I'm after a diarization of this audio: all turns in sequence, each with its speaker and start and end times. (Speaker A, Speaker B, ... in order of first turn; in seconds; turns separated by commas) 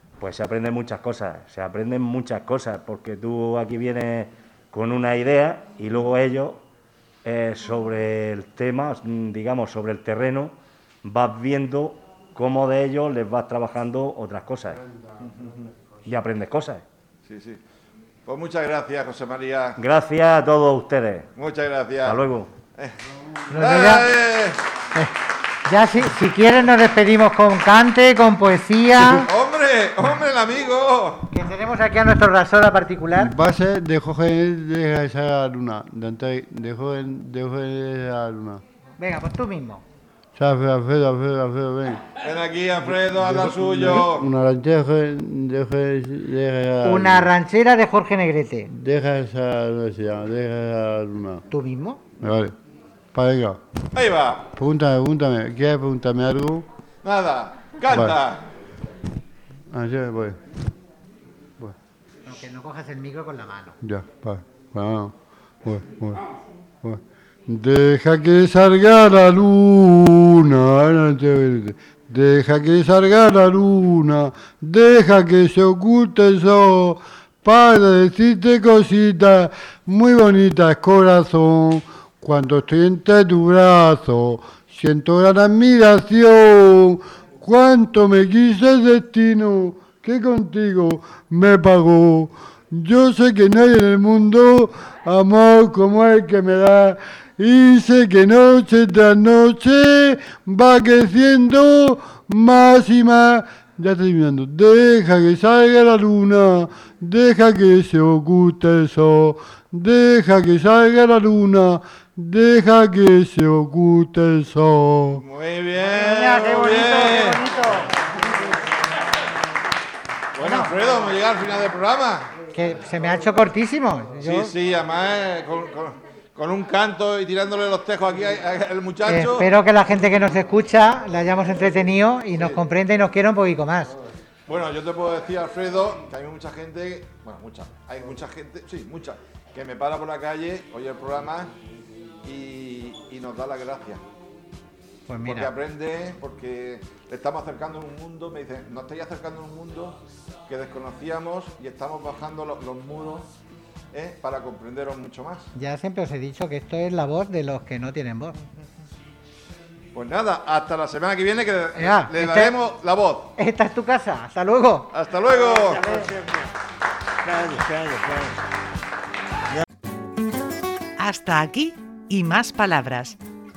Speaker A: 0.2-6.6, Speaker A: 7.2-14.8, Speaker A: 16.1-16.8, Speaker B: 17.2-17.6, Speaker B: 18.3-19.8, Speaker A: 19.8-21.3, Speaker B: 21.4-22.9, Speaker A: 22.0-22.5, Speaker C: 23.5-24.1, Speaker B: 23.5-24.6, Speaker C: 25.6-29.3, Speaker B: 29.3-31.3, Speaker C: 31.3-33.3, Speaker D: 33.1-38.6, Speaker C: 39.0-39.8, Speaker D: 40.4-42.0, Speaker B: 42.2-44.3, Speaker D: 42.8-47.3, Speaker C: 46.8-48.7, Speaker D: 48.7-51.4, Speaker C: 51.5-52.0, Speaker D: 52.2-52.5, Speaker D: 53.1-53.6, Speaker B: 54.0-54.5, Speaker D: 54.5-56.6, Speaker B: 57.0-58.4, Speaker D: 57.9-58.2, Speaker D: 59.7-60.4, Speaker C: 62.2-63.8, Speaker D: 63.8-65.1, Speaker D: 65.6-66.2, Speaker D: 66.8-115.2, Speaker B: 115.2-117.4, Speaker C: 115.9-117.9, Speaker B: 120.3-122.3, Speaker C: 120.4-120.7, Speaker C: 122.5-124.5, Speaker B: 124.2-129.5, Speaker C: 129.1-133.9, Speaker B: 134.5-141.5, Speaker B: 142.2-144.0, Speaker C: 145.1-145.5, Speaker B: 145.2-153.3, Speaker B: 153.9-155.5, Speaker C: 155.5-158.4, Speaker B: 159.9-163.3, Speaker C: 161.8-162.5, Speaker C: 163.4-164.9, Speaker B: 164.9-165.8, Speaker E: 165.5-166.4, Speaker C: 165.8-166.1, Speaker E: 167.2-168.4, Speaker F: 171.0-173.2